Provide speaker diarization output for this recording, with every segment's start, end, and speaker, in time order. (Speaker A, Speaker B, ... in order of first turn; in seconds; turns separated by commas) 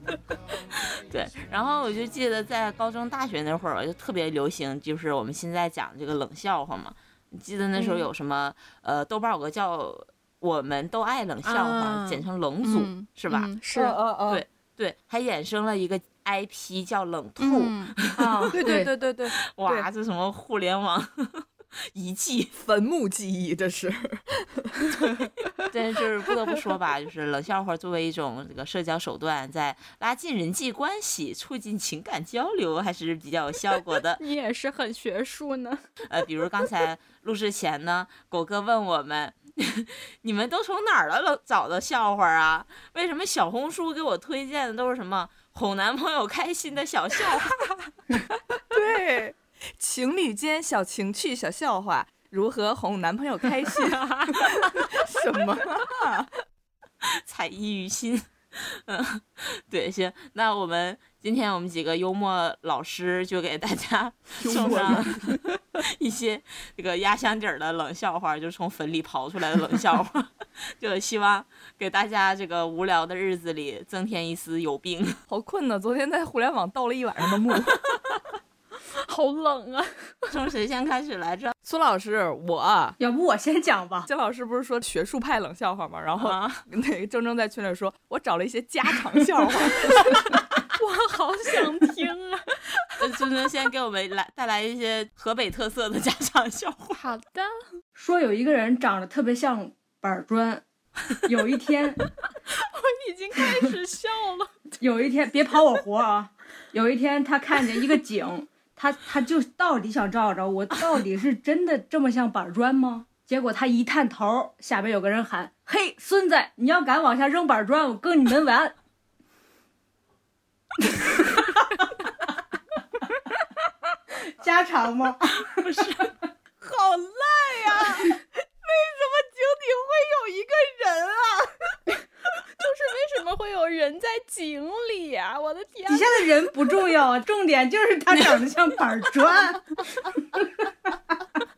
Speaker A: 0.7-13.5, Speaker B: 7.8-8.1, Speaker B: 11.4-14.0, Speaker C: 14.1-14.4, Speaker A: 14.3-22.5, Speaker B: 17.4-17.9, Speaker D: 18.1-18.6, Speaker C: 18.5-19.9, Speaker C: 22.6-25.3, Speaker A: 25.7-34.2, Speaker B: 34.2-35.8, Speaker A: 36.1-47.6, Speaker C: 48.7-56.3, Speaker A: 57.0-75.2, Speaker C: 64.4-65.6, Speaker C: 75.3-77.8, Speaker B: 78.9-80.3, Speaker A: 80.3-81.5, Speaker C: 81.6-83.0, Speaker D: 83.0-84.1, Speaker C: 84.1-90.1, Speaker A: 86.2-86.6, Speaker B: 90.7-92.9, Speaker A: 93.0-97.0, Speaker B: 96.9-97.6, Speaker D: 98.0-102.0, Speaker B: 102.5-104.5, Speaker D: 104.8-118.7, Speaker D: 124.2-126.1, Speaker A: 125.5-126.1, Speaker C: 126.6-131.6, Speaker B: 132.6-136.1, Speaker D: 135.9-139.7